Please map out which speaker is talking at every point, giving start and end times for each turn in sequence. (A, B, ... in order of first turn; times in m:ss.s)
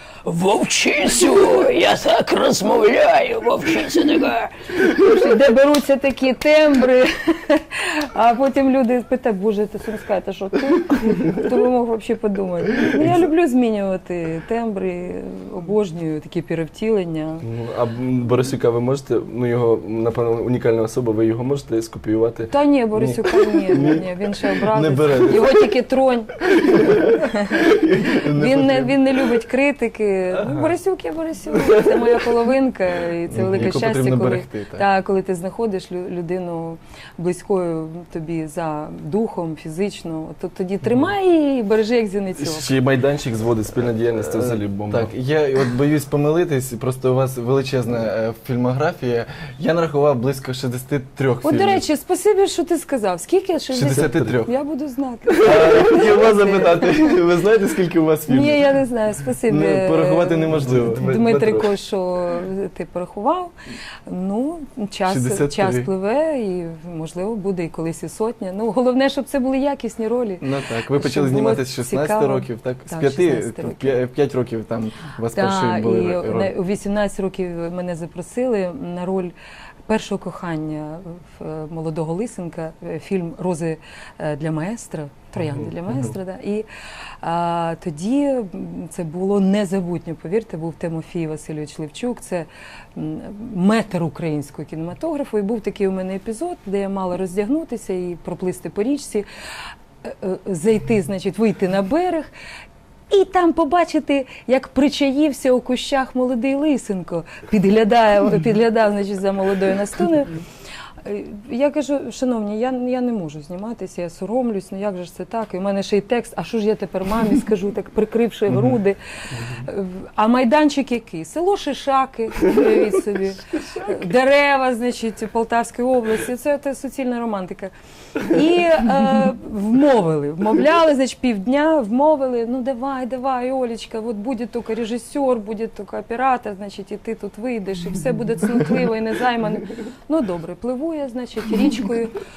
0:00.2-0:17.4 A
0:17.4-0:24.4 B
0:22.5-0:42.7 A
0:24.7-0:25.5 C
0:26.7-0:29.0 C
0:30.3-0:30.8 B
0:31.5-0:32.4 B
0:33.3-0:34.8 C
0:42.4-0:45.1 B
0:44.3-0:51.8 C
0:51.4-0:57.2 A
0:53.7-0:54.5 C
0:53.8-0:54.4 B
0:55.3-0:58.8 C
0:55.4-0:56.7 B
0:58.3-1:03.5 A
0:59.4-1:01.3 C
1:00.5-1:01.8 B
1:04.1-1:14.0 A
1:05.1-1:05.9 C
1:10.4-1:16.5 C
1:15.3-1:19.3 A
1:19.9-1:26.7 A
1:25.4-1:26.2 B
1:27.2-1:39.3 A
1:40.0-1:42.3 A
1:43.1-1:50.4 A
1:51.0-2:22.2 A